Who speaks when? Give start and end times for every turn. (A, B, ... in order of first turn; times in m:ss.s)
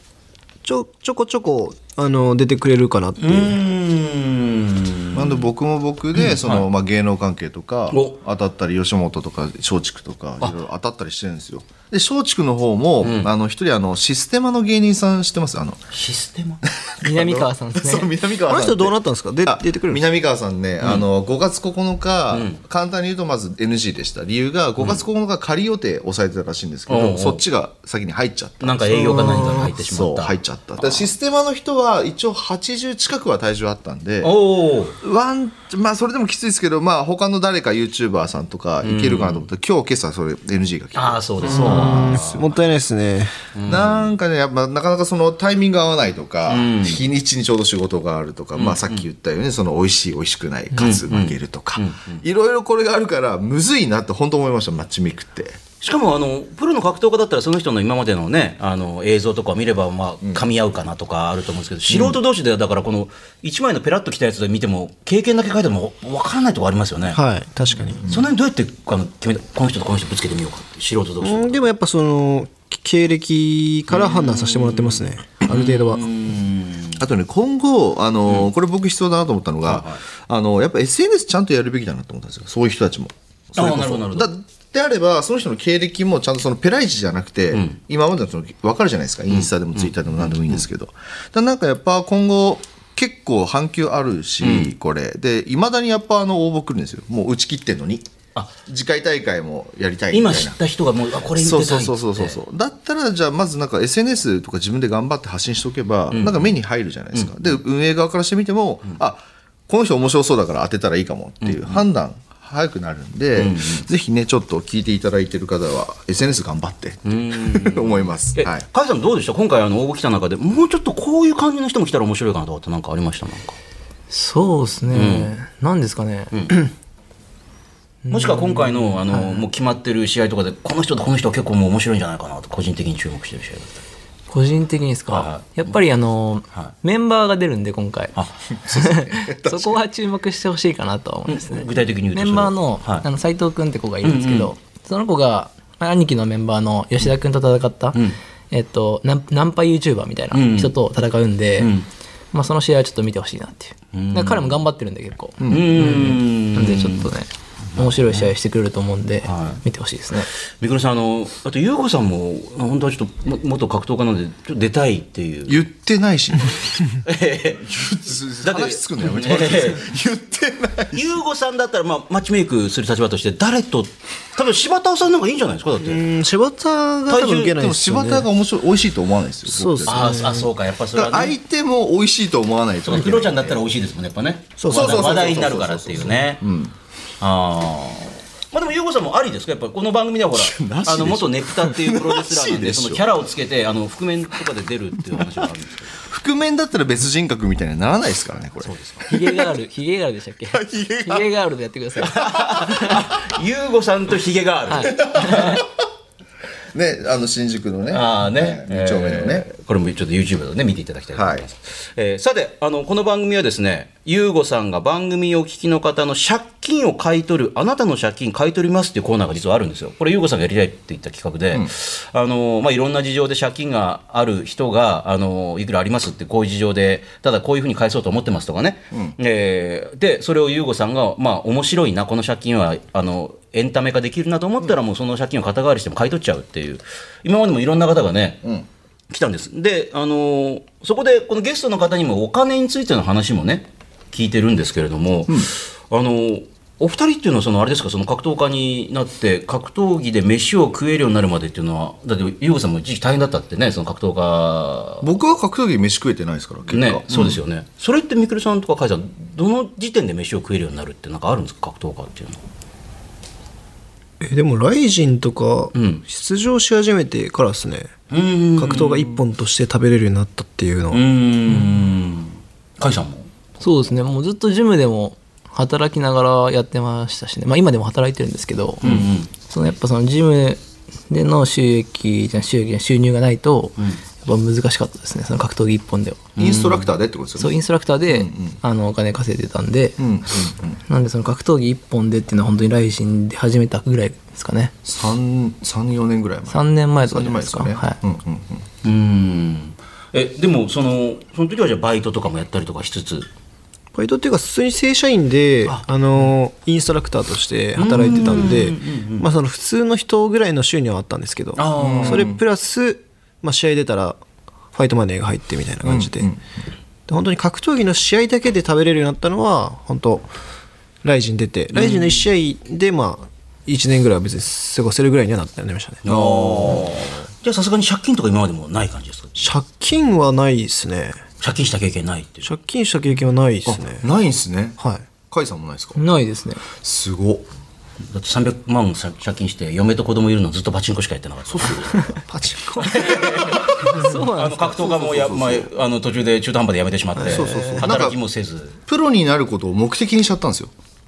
0:00.6-0:03.6 A
0:03.2-0:05.5 B
0:05.1-0:15.8 C
0:06.1-0:06.7 B
0:07.9-0:08.2 B
0:13.0-0:13.3 B
0:15.9-0:16.6 B
0:16.9-0:34.3 C
0:17.0-0:18.1 D
0:18.5-0:20.0 A
0:20.8-0:21.1 B
0:22.3-0:22.6 B
0:24.8-0:25.0 B
0:26.9-0:27.4 B
0:28.6-0:31.1 B
0:29.1-0:29.6 A
0:34.2-0:35.0 B
0:35.0-0:42.3 C
0:38.8-0:39.5 B
0:40.9-0:42.5 B
0:41.4-0:43.4 A
0:43.5-0:44.1 B
0:43.7-0:55.6 C
0:46.5-0:47.1 B
0:48.5-0:49.0 B
0:50.7-0:52.2 B
0:55.8-1:07.2 B
1:00.2-1:00.5 C
1:01.9-1:02.2 C
1:07.1-1:08.0 A
1:07.9-1:08.3 C
1:08.1-1:11.6 B
1:11.2-1:16.0 A
1:13.9-1:17.1 B
1:17.0-1:38.1 C
1:19.6-1:20.0 B
1:23.5-1:24.3 B
1:29.3-1:30.6 B
1:34.4-1:34.7 B
1:38.6-1:40.6 C
1:40.1-1:42.4 B
1:41.4-1:58.6 C
1:46.1-1:46.6 B
1:47.1-1:47.6 B
1:51.4-1:51.8 B
1:53.4-1:53.9 B
1:57.0-2:03.6 B
2:04.1-2:06.3 D
2:04.9-2:05.3 B
2:08.0-2:09.4 D
2:08.1-2:13.8 B
2:14.3-2:18.1 D
2:15.1-2:15.8 B
2:18.1-2:18.4 B
2:18.5-2:19.8 C
2:18.7-2:28.0 D
2:21.3-2:23.0 B
2:24.0-2:24.5 B
2:28.5-2:31.7 D
2:30.3-2:30.8 B
2:31.6-2:31.9 B
2:32.3-2:40.3 D
2:33.9-2:34.6 B
2:35.4-2:36.1 C
2:35.5-2:37.1 B
2:37.7-2:38.3 B
2:39.2-2:39.6 B
2:40.6-2:45.6 B
2:45.5-2:46.8 C
2:47.0-2:49.9 B
2:47.9-2:51.1 C
2:50.9-2:56.0 B
2:55.8-2:58.3 A
2:57.1-2:57.6 B
2:57.6-3:00.2 C
2:59.4-3:00.5 A
2:59.8-3:01.4 B
3:00.9-3:03.6 C
3:02.8-3:06.4 B
3:04.6-3:05.3 A
3:04.7-3:06.7 C
3:07.2-3:16.0 B
3:10.3-3:13.0 C
3:16.1-3:19.5 C
3:18.6-3:19.1 B
3:19.1-3:23.1 D
3:20.5-3:21.3 C
3:22.0-3:25.6 B
3:24.7-3:25.6 D
3:25.0-3:25.6 C
3:26.7-3:29.5 C
3:27.9-3:58.4 B
3:31.1-3:31.5 C
3:59.1-4:15.1 B
4:15.0-4:17.4 C
4:16.7-4:22.4 B
4:24.2-4:27.9 A
4:25.7-4:26.0 B
4:28.1-4:29.2 B
4:28.6-4:31.0 A
4:30.9-4:33.3 B
4:31.5-4:31.8 D
4:33.6-4:38.9 D
4:38.8-4:39.3 B
4:39.5-4:46.2 D
4:46.4-4:46.9 B
4:46.4-4:48.6 C
4:47.4-4:50.0 D
4:50.0-4:50.8 C
4:50.8-4:54.7 D
4:54.8-4:58.6 C
4:56.5-4:58.0 D
4:58.8-5:03.3 B
5:03.9-5:14.2 A
5:05.6-5:06.3 B
5:07.8-5:09.3 B
5:08.2-5:08.5 C
5:11.5-5:12.3 B
5:11.8-5:12.4 C
5:14.7-5:16.3 A
5:15.8-5:16.4 C
5:17.1-5:20.3 A
5:21.0-5:26.0 A
5:21.7-5:22.2 B
5:26.0-5:29.5 B
5:26.0-5:27.0 C
5:29.4-5:31.2 A
5:31.4-5:32.5 B
5:32.4-5:34.0 A
5:33.6-5:36.0 C
5:34.8-5:35.1 A
5:36.0-5:36.6 D
5:36.8-5:37.5 C
5:38.1-5:42.1 B
5:41.5-5:42.1 C
5:42.2-5:43.7 A
5:42.8-5:48.8 B
5:43.7-5:45.1 D
5:45.1-5:45.7 C
5:47.2-5:47.9 A
5:47.2-5:48.2 C
5:48.9-5:50.7 C